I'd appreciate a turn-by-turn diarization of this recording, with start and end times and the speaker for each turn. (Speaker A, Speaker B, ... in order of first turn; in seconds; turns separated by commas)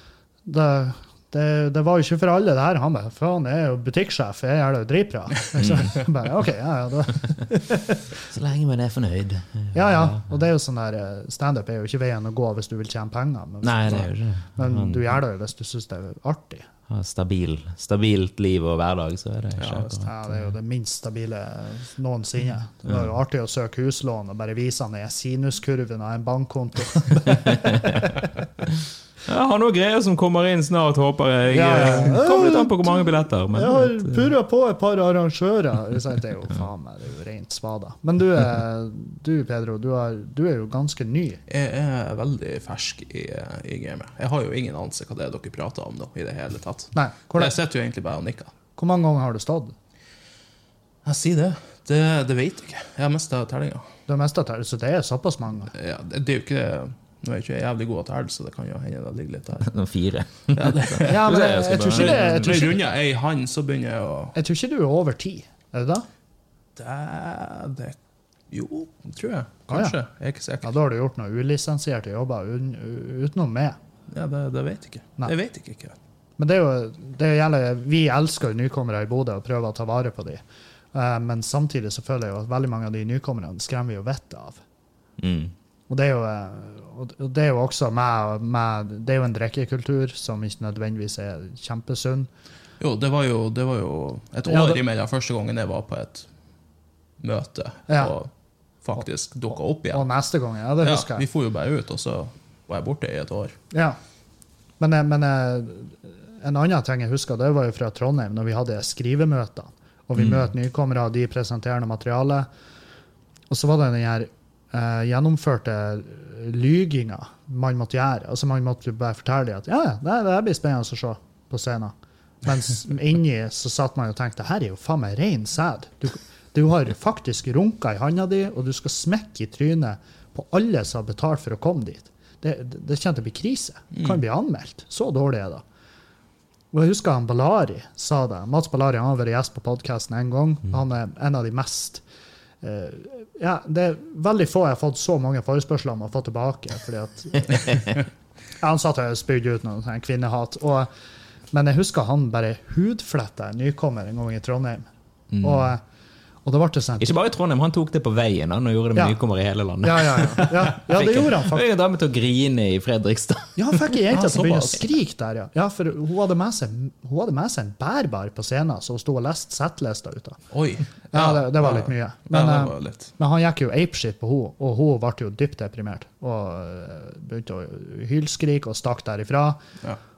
Speaker A: 0.5-8.0, Speaker B: 5.6-5.9, Speaker B: 8.3-10.4, Speaker A: 9.7-16.7, Speaker B: 13.6-15.1, Speaker B: 16.9-20.4, Speaker C: 19.6-20.0, Speaker A: 20.0-28.2, Speaker B: 27.3-28.0, Speaker B: 29.2-34.3, Speaker A: 31.5-41.4, Speaker C: 41.5-48.5, Speaker A: 46.9-47.5, Speaker A: 48.8-49.7, Speaker C: 51.0-53.9, Speaker A: 54.1-55.7, Speaker C: 55.7-59.7, Speaker B: 59.6-62.7, Speaker C: 60.5-64.3, Speaker A: 61.0-62.7, Speaker A: 64.3-66.0, Speaker C: 66.8-68.0, Speaker C: 68.5-70.7, Speaker A: 69.7-70.0, Speaker A: 70.6-73.8, Speaker C: 74.1-76.0, Speaker A: 76.4-80.4, Speaker A: 80.9-84.6, Speaker B: 85.2-85.5, Speaker A: 85.9-92.3, Speaker C: 92.8-96.3, Speaker A: 94.5-94.8, Speaker C: 97.2-98.3, Speaker A: 97.9-98.1, Speaker C: 98.8-100.1, Speaker A: 99.9-101.2, Speaker C: 100.8-103.5, Speaker A: 103.7-104.0, Speaker A: 104.8-112.5, Speaker A: 113.5-135.6, Speaker C: 133.9-134.2, Speaker A: 136.7-142.0, Speaker A: 142.6-147.9, Speaker A: 148.6-150.9, Speaker A: 151.5-154.8, Speaker B: 155.3-155.7, Speaker A: 155.4-155.8, Speaker A: 156.4-157.1, Speaker B: 157.0-163.9, Speaker A: 159.8-161.7, Speaker A: 163.6-170.4, Speaker C: 164.1-164.8, Speaker C: 170.5-173.1, Speaker A: 171.1-179.6